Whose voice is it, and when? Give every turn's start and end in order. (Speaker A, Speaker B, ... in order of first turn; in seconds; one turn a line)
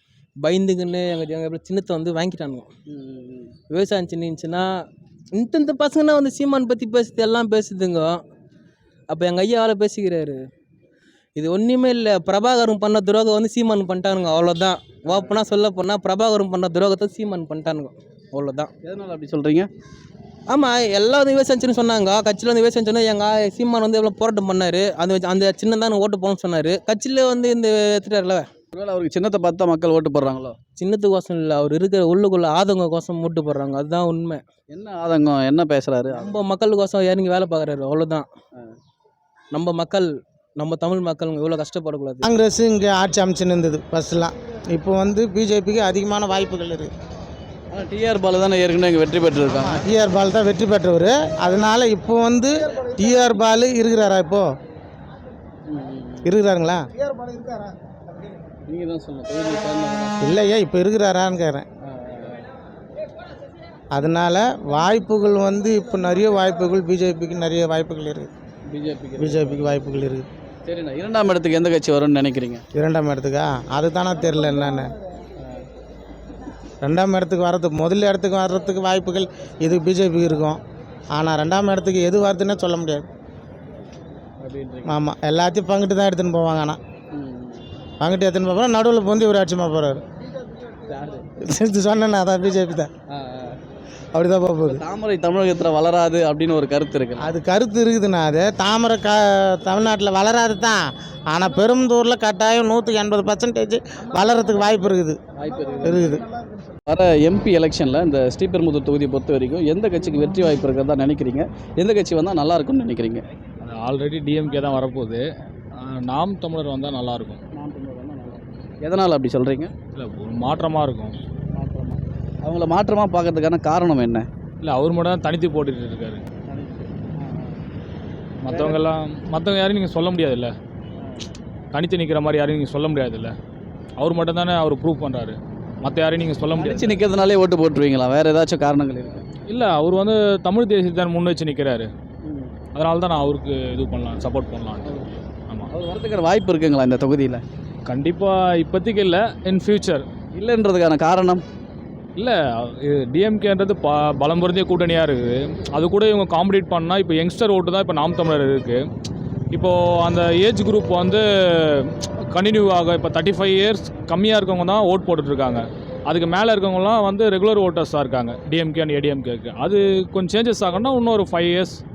Speaker A: 0.4-2.7
Speaker B: 2.9-3.5
Speaker A: 3.7-4.7
Speaker A: 5.3-8.2
Speaker A: 9.1-10.4
Speaker A: 11.3-18.7
Speaker B: 15.1-15.4
Speaker B: 18.8-19.7
Speaker A: 20.5-28.5
Speaker B: 28.7-30.6
Speaker A: 30.8-34.4
Speaker B: 34.7-36.4
Speaker A: 36.1-38.3
Speaker A: 39.5-42.3
Speaker C: 42.2-46.9
Speaker B: 47.7-49.8
Speaker C: 49.5-54.4
Speaker B: 55.7-56.3
Speaker C: 56.2-56.8
Speaker B: 58.6-60.2
Speaker C: 60.2-61.6
Speaker B: 61.9-62.4
Speaker C: 63.9-68.3
Speaker B: 68.7-69.8
Speaker C: 69.2-70.3
Speaker B: 70.6-72.6
Speaker C: 72.8-74.9
Speaker C: 76.8-80.6
Speaker C: 81.1-83.0
Speaker B: 84.4-85.0
Speaker C: 84.8-86.8
Speaker B: 87.1-87.7
Speaker C: 88.0-90.0
Speaker B: 90.9-91.2
Speaker C: 91.5-92.9
Speaker B: 93.1-93.6
Speaker C: 94.1-94.8
Speaker B: 94.7-97.3
Speaker C: 97.2-100.8
Speaker C: 101.3-105.2
Speaker B: 105.4-106.2
Speaker C: 105.8-106.2
Speaker B: 106.9-113.2
Speaker D: 113.6-115.2
Speaker D: 115.8-117.4
Speaker B: 117.5-119.7
Speaker D: 120.0-121.2
Speaker B: 121.5-124.3
Speaker D: 124.6-126.2
Speaker B: 126.5-127.6
Speaker D: 128.4-130.5
Speaker B: 128.4-128.8
Speaker D: 131.7-133.3
Speaker D: 134.0-137.0
Speaker B: 136.6-139.2
Speaker D: 139.5-141.9
Speaker B: 142.2-142.5
Speaker D: 142.7-145.7
Speaker B: 144.8-145.1
Speaker B: 145.7-147.4
Speaker D: 147.9-150.0
Speaker B: 150.3-151.4
Speaker D: 152.2-158.8
Speaker D: 159.5-171.8